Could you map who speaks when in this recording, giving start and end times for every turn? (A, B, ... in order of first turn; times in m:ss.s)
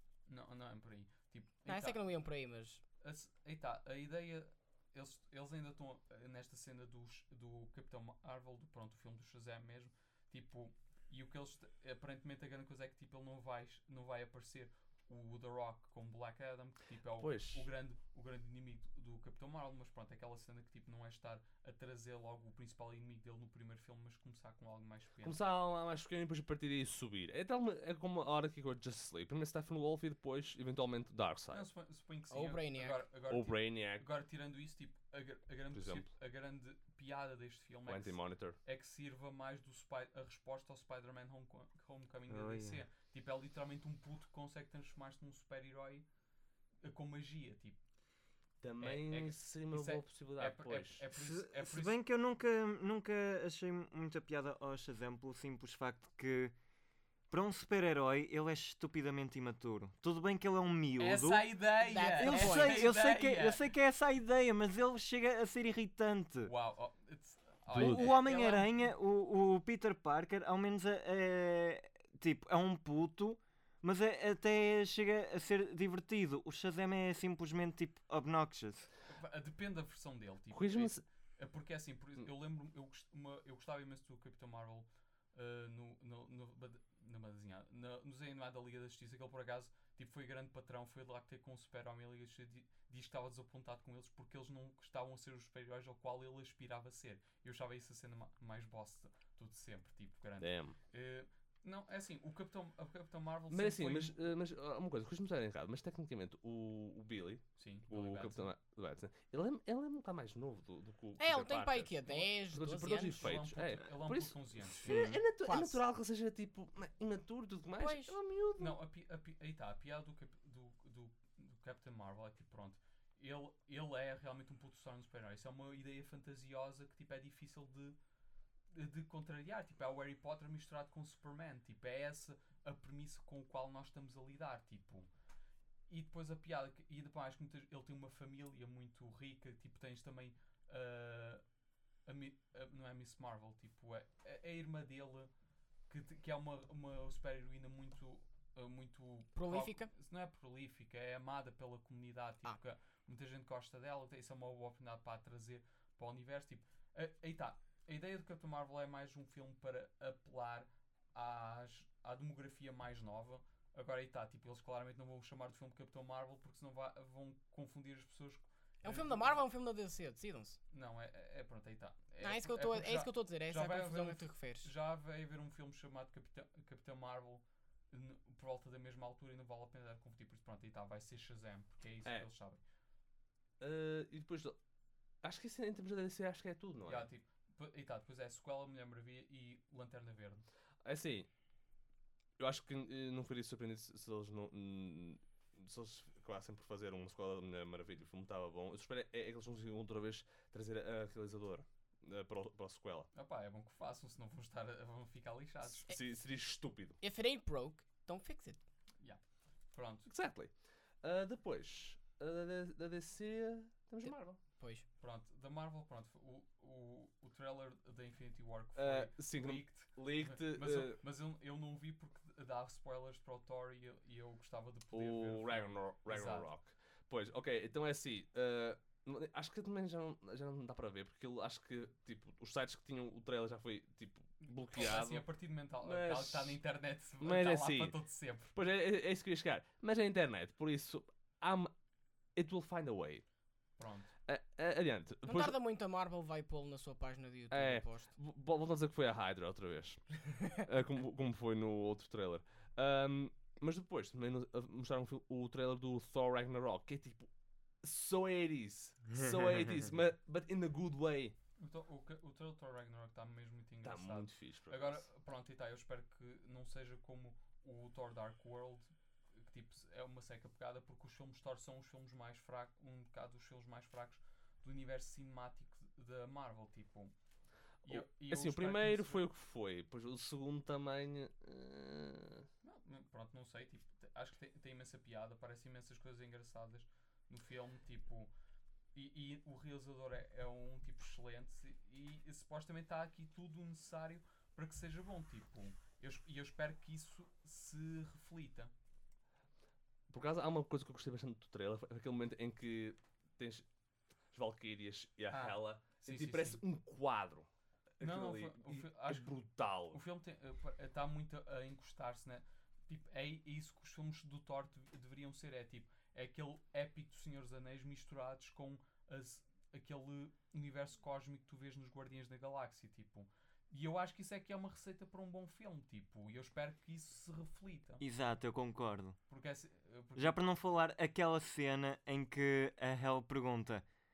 0:00.3-0:02.0 A
0:01.6-0:02.8 B
0:03.0-0:25.4 A
0:17.2-0:17.7 C
0:25.2-0:31.6 C
0:31.5-0:46.0 A
0:32.3-0:33.0 B
0:33.3-0:34.0 C
0:35.7-0:36.1 C
0:37.9-0:38.6 C
0:42.3-0:42.8 D
0:46.8-0:47.8 A
0:48.6-0:51.0 C
0:48.8-0:52.0 A
0:51.1-0:56.5 D
0:57.3-1:06.5 D
1:01.0-1:03.6 A
1:01.8-1:02.9 B
1:06.4-1:08.7 A
1:07.7-1:18.9 D
1:07.7-1:08.0 C
1:19.1-1:44.2 A
1:20.5-1:21.0 C
1:40.4-1:40.8 C
1:43.5-1:58.8 C
1:47.6-1:48.5 A
1:51.2-1:53.3 B
1:53.2-1:54.8 A
1:54.8-1:55.2 D
1:54.9-1:55.8 B
1:57.8-1:58.1 B
1:58.6-2:08.0 A
2:08.7-2:15.1 A
2:15.9-2:21.4 A
2:22.0-2:25.3 A
2:25.9-2:49.4 A
2:29.3-2:29.9 B
2:48.8-2:50.6 B
2:50.7-3:02.6 A
2:52.2-2:54.7 B
3:03.6-3:04.6 C
3:05.2-3:07.1 C
3:06.8-3:10.5 A
3:10.8-3:11.3 C
3:12.4-3:23.1 C
3:23.1-3:25.9 A
3:25.9-3:27.0 C
3:27.0-3:28.6 B
3:29.7-3:30.1 A
3:30.1-3:30.5 C
3:31.0-3:34.4 C
3:34.0-3:34.8 B
3:35.0-3:46.5 A
3:38.8-3:41.0 C
3:44.9-3:55.2 C
3:54.4-3:58.5 A
3:55.8-3:56.6 C
3:57.2-3:58.0 C
3:58.5-4:01.7 C
4:02.3-4:03.2 C
4:03.8-4:04.1 A
4:04.3-4:05.6 C
4:05.2-4:08.1 B
4:07.5-4:17.3 C
4:17.8-4:21.4 C
4:21.6-4:37.1 A
4:23.8-4:25.1 C
4:37.8-4:39.2 A
4:37.8-4:42.5 C
4:42.6-4:48.3 A
4:48.9-4:58.7 A
5:00.1-5:03.6 C
5:04.3-5:10.0 C
5:05.3-5:06.6 A
5:08.0-5:09.3 A
5:09.9-5:28.0 A
5:28.0-5:29.2 D
5:29.3-5:30.4 A
5:30.2-5:33.8 D